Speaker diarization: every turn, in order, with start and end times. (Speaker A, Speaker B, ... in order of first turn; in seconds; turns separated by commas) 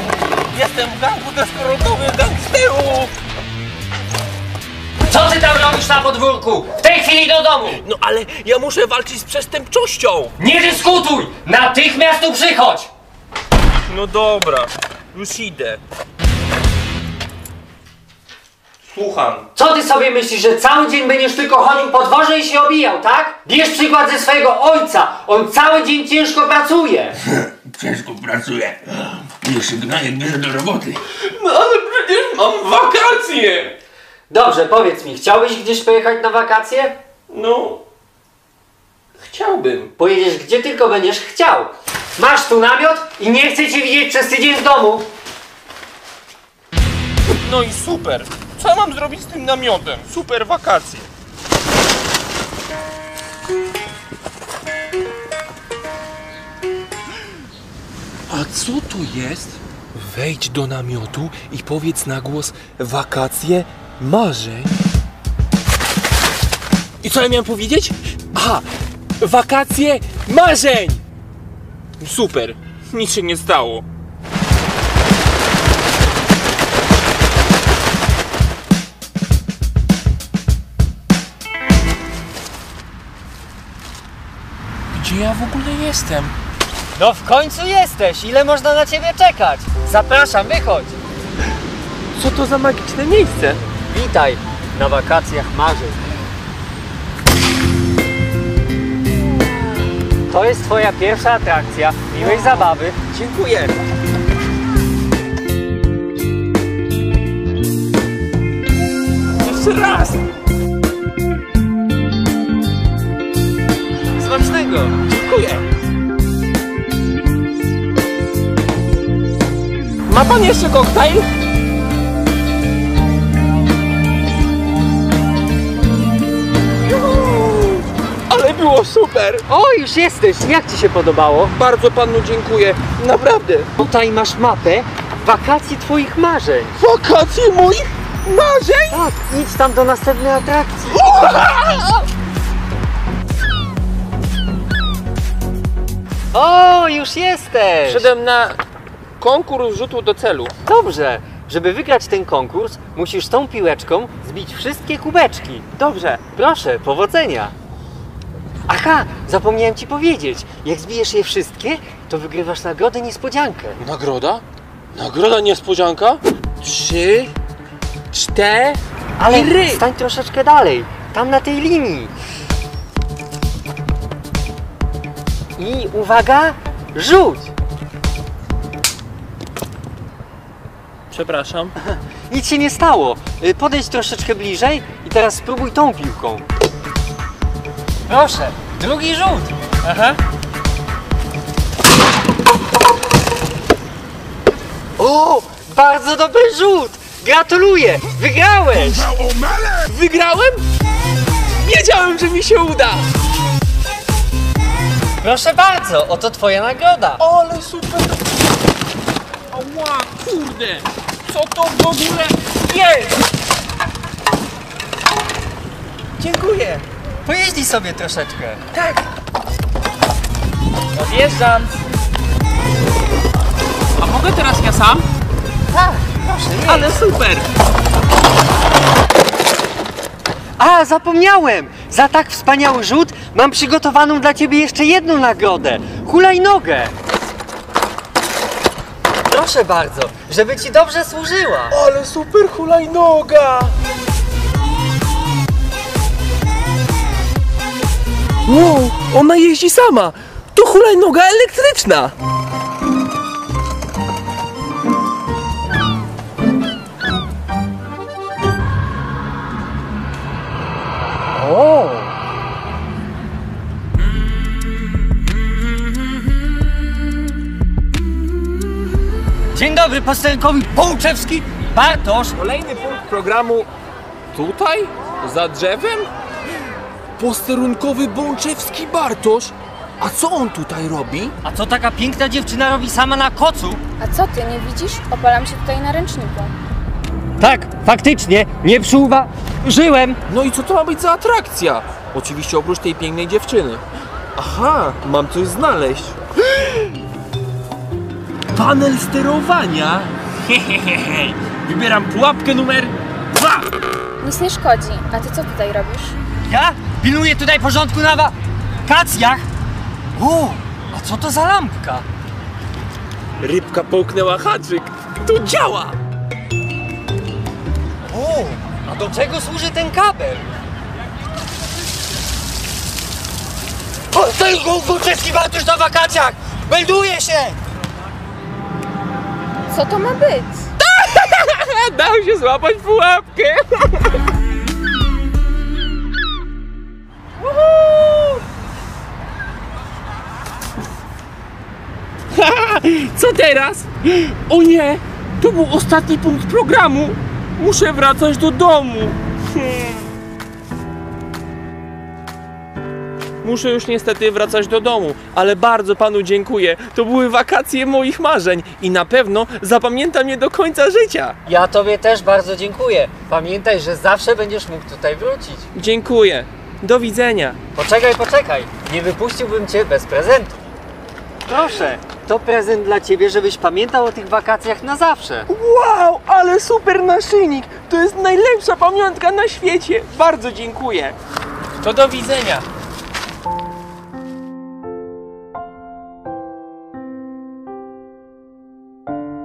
Speaker A: 0.5-3.1, Speaker B: 5.0-7.8, Speaker A: 7.7-10.3, Speaker B: 10.4-12.9, Speaker A: 13.8-15.8, Speaker A: 18.8-19.5, Speaker B: 19.6-27.1, Speaker C: 27.3-31.0, Speaker A: 31.2-33.8, Speaker B: 34.3-37.0, Speaker A: 37.3-37.8, Speaker A: 39.2-39.9, Speaker B: 40.0-45.1, Speaker A: 47.4-51.1, Speaker A: 58.3-64.7, Speaker A: 67.0-68.7, Speaker A: 69.2-71.0, Speaker A: 72.0-73.8, Speaker A: 84.9-86.3, Speaker B: 86.9-91.0, Speaker A: 92.1-93.6, Speaker B: 93.9-96.0, Speaker B: 100.3-103.0, Speaker A: 102.2-103.8, Speaker A: 109.4-110.2, Speaker B: 114.2-115.0, Speaker A: 115.1-115.6, Speaker A: 120.1-121.3, Speaker A: 126.8-129.4, Speaker B: 129.5-131.5, Speaker A: 131.5-133.7, Speaker B: 133.8-136.8, Speaker A: 136.8-139.0, Speaker B: 138.9-141.0, Speaker A: 140.9-142.1, Speaker B: 146.3-148.1, Speaker A: 147.8-148.6, Speaker A: 149.2-150.5, Speaker B: 150.6-155.7, Speaker A: 155.8-156.2, Speaker B: 156.2-157.5, Speaker B: 158.7-163.8, Speaker A: 163.8-167.3, Speaker A: 168.1-169.8, Speaker B: 169.2-172.1, Speaker B: 175.6-177.5, Speaker A: 181.1-181.7, Speaker B: 181.8-186.4, Speaker B: 188.1-190.2, Speaker B: 195.0-199.1, Speaker A: 199.6-200.6, Speaker A: 201.6-203.1, Speaker B: 205.2-207.2, Speaker A: 207.2-208.2, Speaker A: 209.5-213.2, Speaker A: 216.2-216.8, Speaker B: 217.2-218.6, Speaker A: 218.7-219.0, Speaker A: 220.9-221.8, Speaker A: 224.0-225.1, Speaker B: 225.7-226.9, Speaker A: 226.7-227.5, Speaker B: 230.6-236.9, Speaker B: 239.3-241.7, Speaker A: 241.7-243.7, Speaker A: 248.4-252.1, Speaker B: 261.3-262.1, Speaker B: 269.5-272.4, Speaker A: 272.4-273.7, Speaker A: 274.3-276.1, Speaker A: 277.2-281.3, Speaker B: 281.4-283.8, Speaker D: 284.0-286.5, Speaker B: 287.4-290.2, Speaker A: 290.3-293.8, Speaker A: 294.4-296.8, Speaker A: 298.5-303.6, Speaker D: 304.2-306.2, Speaker B: 306.4-309.4, Speaker B: 310.1-312.1, Speaker A: 313.4-316.0, Speaker B: 318.1-320.6, Speaker B: 324.1-327.6, Speaker D: 329.7-330.7, Speaker A: 330.8-334.2, Speaker A: 337.5-338.4, Speaker A: 342.3-350.0, Speaker A: 353.4-361.4, Speaker B: 361.4-365.7, Speaker A: 365.7-367.6, Speaker B: 367.7-370.5, Speaker B: 371.4-375.5, Speaker A: 375.5-381.1, Speaker A: 381.8-382.6